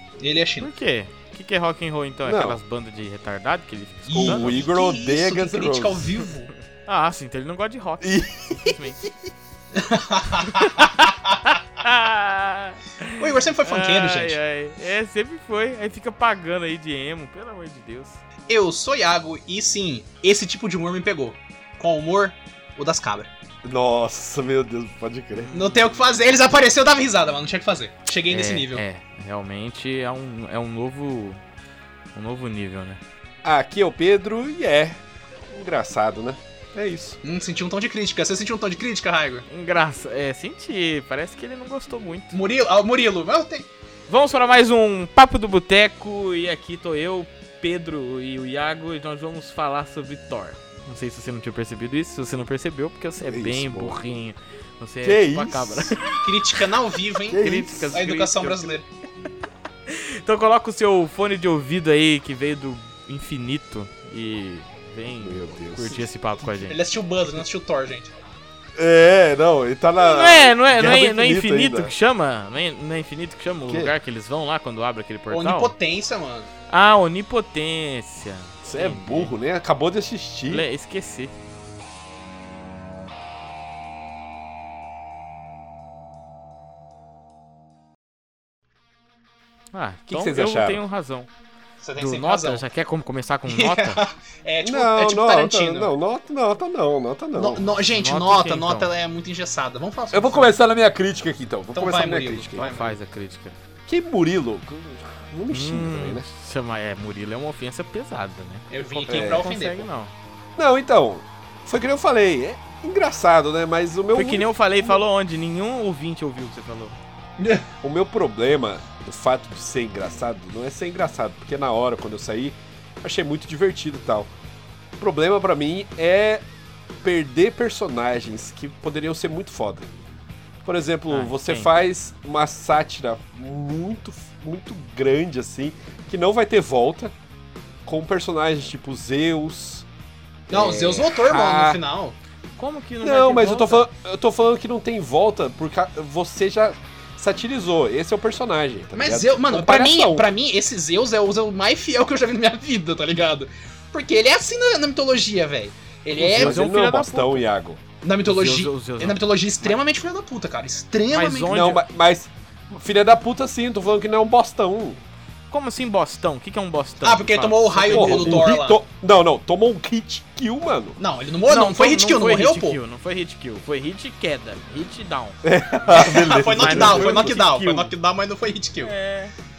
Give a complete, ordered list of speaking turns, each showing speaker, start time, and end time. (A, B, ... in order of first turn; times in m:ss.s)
0:00.2-0:00.7 A
0:00.6-0:04.6 B
0:02.3-0:02.6 C
0:04.1-0:06.5 A
0:04.1-0:06.1 C
0:06.8-0:09.0 B
0:08.0-0:08.9 C
0:09.7-0:11.4 A
0:10.5-0:18.2 B
0:13.2-0:14.4 A
0:18.5-0:23.3 A
0:23.6-0:25.5 C
0:25.4-0:25.8 B
0:25.5-0:28.8 A
0:28.3-0:31.4 B
0:32.2-0:33.0 B
0:33.4-0:37.2 C
0:37.2-0:39.5 A
0:39.5-0:42.4 B
0:42.3-0:43.7 A
0:44.1-0:56.2 B
0:53.2-0:54.0 C
0:55.0-0:56.1 C
0:56.2-0:58.8 A
0:57.3-0:58.8 B
0:57.3-0:58.0 C
0:59.9-1:06.8 B
1:05.2-1:06.1 C
1:06.5-1:08.1 A
1:08.8-1:11.9 C
1:10.0-1:15.7 B
1:13.7-1:13.9 C
1:15.3-1:16.5 A
1:16.7-1:19.3 B
1:18.7-1:20.7 C
1:20.5-1:21.3 B
1:29.7-1:31.3 B
1:30.1-1:30.8 C
1:31.8-1:32.6 A
1:32.0-1:34.0 B
1:33.5-1:35.9 A
1:34.6-1:37.6 C
1:37.4-1:40.5 A
1:37.9-1:38.9 B
1:40.1-1:42.7 C
1:41.7-1:43.0 A
1:42.6-1:43.6 B
1:43.9-1:46.3 C
1:45.5-1:50.1 B
1:48.7-1:49.9 A
1:49.1-1:49.5 C
1:50.6-1:55.0 C
1:54.2-1:57.0 B
1:57.4-1:57.7 A
1:57.8-2:04.3 C
2:05.0-2:06.4 C
2:07.0-2:09.9 C
2:10.6-2:17.1 C
2:11.1-2:11.7 B
2:17.9-2:19.9 C
2:20.5-2:22.2 A
2:20.5-2:21.1 B
2:21.1-2:21.8 C
2:22.6-2:23.9 B
2:23.0-2:30.3 C
2:28.9-2:36.6 A
2:36.2-2:37.8 C
2:36.3-2:37.4 B
2:38.0-2:41.7 A
2:38.3-2:39.8 B
2:41.1-2:41.8 B
2:41.5-2:45.0 C
2:45.5-2:48.5 B
2:47.0-2:48.8 A
2:47.9-2:51.0 C
2:51.0-2:52.8 A
2:51.5-2:55.4 B
2:55.4-2:57.4 C
2:55.9-2:58.9 A
2:56.0-2:57.9 B
2:58.8-2:59.3 B